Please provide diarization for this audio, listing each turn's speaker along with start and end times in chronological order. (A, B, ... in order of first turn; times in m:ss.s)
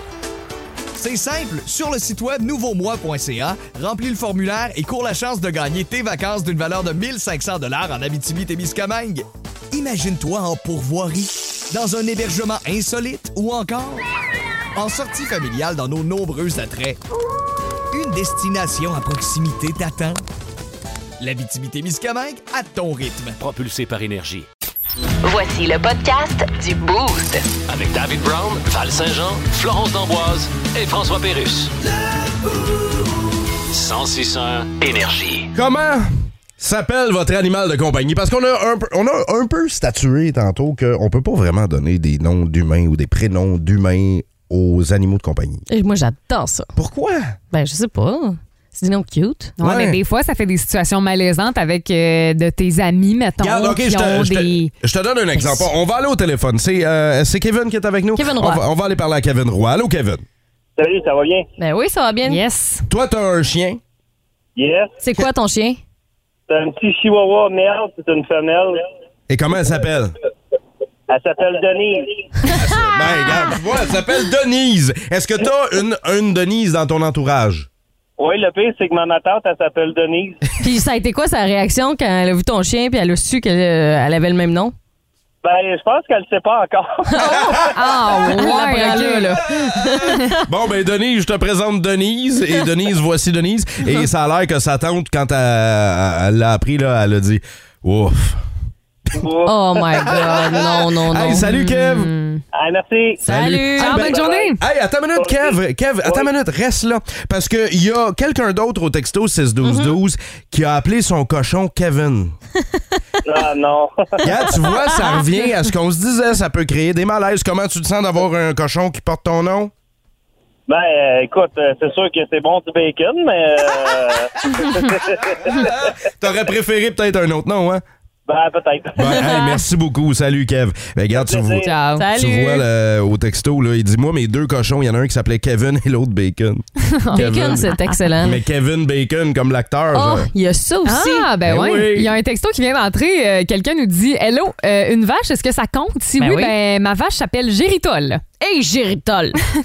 0:00.9-0:14.0 A
0:14.8-0:17.0 A
0:17.9-0:20.2 A
0:21.2-0:24.3 A
0:23.8-0:24.4 B
0:25.2-0:27.5 C
0:27.7-0:31.7 B
0:33.7-0:35.5 B
0:35.6-0:36.1 D
0:36.6-0:45.6 D
0:45.7-0:46.7 E
0:46.8-0:47.4 D
0:47.5-0:49.5 E
0:49.6-0:54.7 F
0:49.6-0:50.0 D
0:53.4-1:00.2 D
0:58.2-0:58.6 E
1:00.8-1:01.4 G
1:01.6-1:02.4 E
1:02.2-1:02.8 F
1:02.9-1:03.8 D
1:04.6-1:04.9 G
1:05.0-1:05.8 E
1:06.5-1:08.8 G
1:09.3-1:10.1 D
1:11.1-1:12.1 G
1:12.5-1:17.7 D
1:18.2-1:20.4 G
1:20.6-1:24.7 E
1:25.4-1:27.2 G
1:27.1-1:30.4 E
1:27.2-1:27.7 D
1:27.7-1:29.4 F
1:30.4-1:38.4 D
1:39.2-1:39.6 G
1:39.4-1:41.5 E
1:39.9-1:42.1 D
1:41.4-1:42.4 F
1:42.5-1:43.3 G
1:43.2-1:52.4 D
1:43.2-1:44.3 E
1:43.8-1:44.6 F
1:44.0-1:44.6 G
1:45.2-1:45.5 G
1:49.6-1:49.9 E
1:53.2-1:53.9 G
1:54.2-1:59.7 D
1:54.6-1:55.2 E
2:00.7-2:05.4 G
2:05.4-2:07.8 D
2:08.3-2:09.4 G
2:09.0-2:17.7 D
2:11.1-2:11.7 G
2:11.6-2:12.0 F
2:11.9-2:12.6 E
2:16.9-2:18.0 F
2:17.1-2:18.4 E
2:18.2-2:20.3 D
2:19.9-2:21.3 E
2:20.8-2:28.2 F
2:21.4-2:22.1 D
2:26.2-2:26.5 E
2:28.4-2:29.4 E